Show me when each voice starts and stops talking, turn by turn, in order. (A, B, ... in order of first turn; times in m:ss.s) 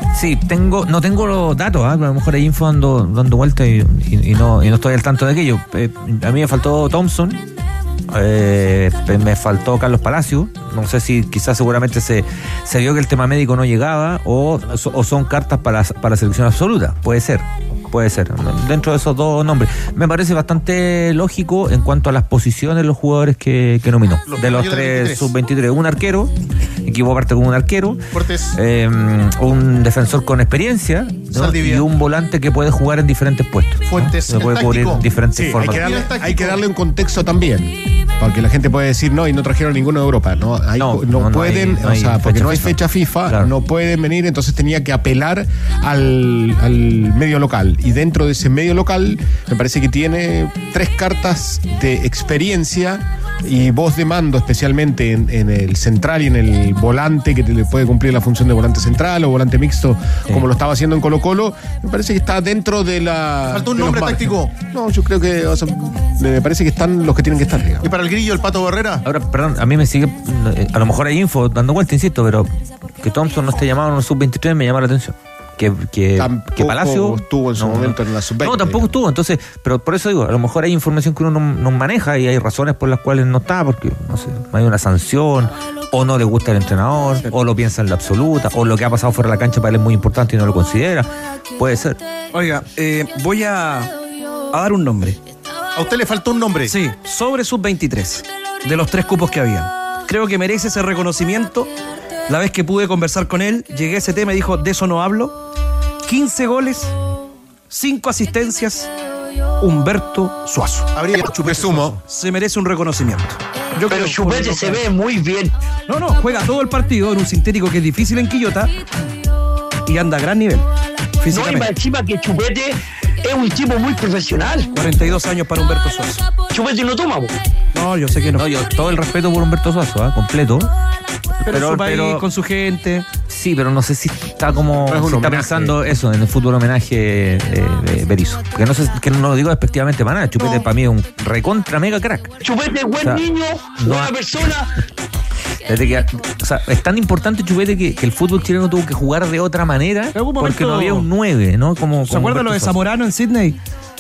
0:00.1-0:07.4 A
0:08.1-0:26.3 A
0:24.3-0:25.3 B
0:26.8-0:28.0 A
0:28.1-0:28.6 B
0:28.6-0:35.9 A
0:31.3-0:31.9 B
0:33.8-0:35.0 B
0:35.4-1:07.9 C
0:35.6-0:36.6 B
0:40.8-0:43.5 A
1:03.5-1:04.5 B
1:07.8-1:09.0 B
1:09.0-1:32.0 A
1:16.2-1:18.9 C
1:32.3-1:33.9 D
1:34.5-1:35.2 D
1:35.8-1:36.7 B
1:36.7-1:41.7 D
1:42.3-1:45.4 D
1:46.1-1:46.9 D
1:47.7-1:48.9 D
1:49.6-1:50.9 D
1:50.9-1:52.0 B
1:51.4-1:52.0 C
1:52.1-1:54.9 D
1:53.9-1:55.5 E
1:55.9-1:58.8 D
1:59.9-2:00.6 D
2:01.2-2:01.7 D
2:01.3-2:04.7 E
2:04.7-2:06.2 D
2:06.5-2:07.3 E
2:07.7-2:08.5 D
2:08.4-2:10.7 A
2:11.4-2:13.1 D
2:11.5-2:12.2 A
2:13.3-2:22.3 A
2:14.7-2:15.8 C
2:22.4-2:24.7 E
2:23.8-2:24.1 A
2:25.6-2:32.8 A
2:30.1-2:31.1 D
2:32.0-2:33.6 D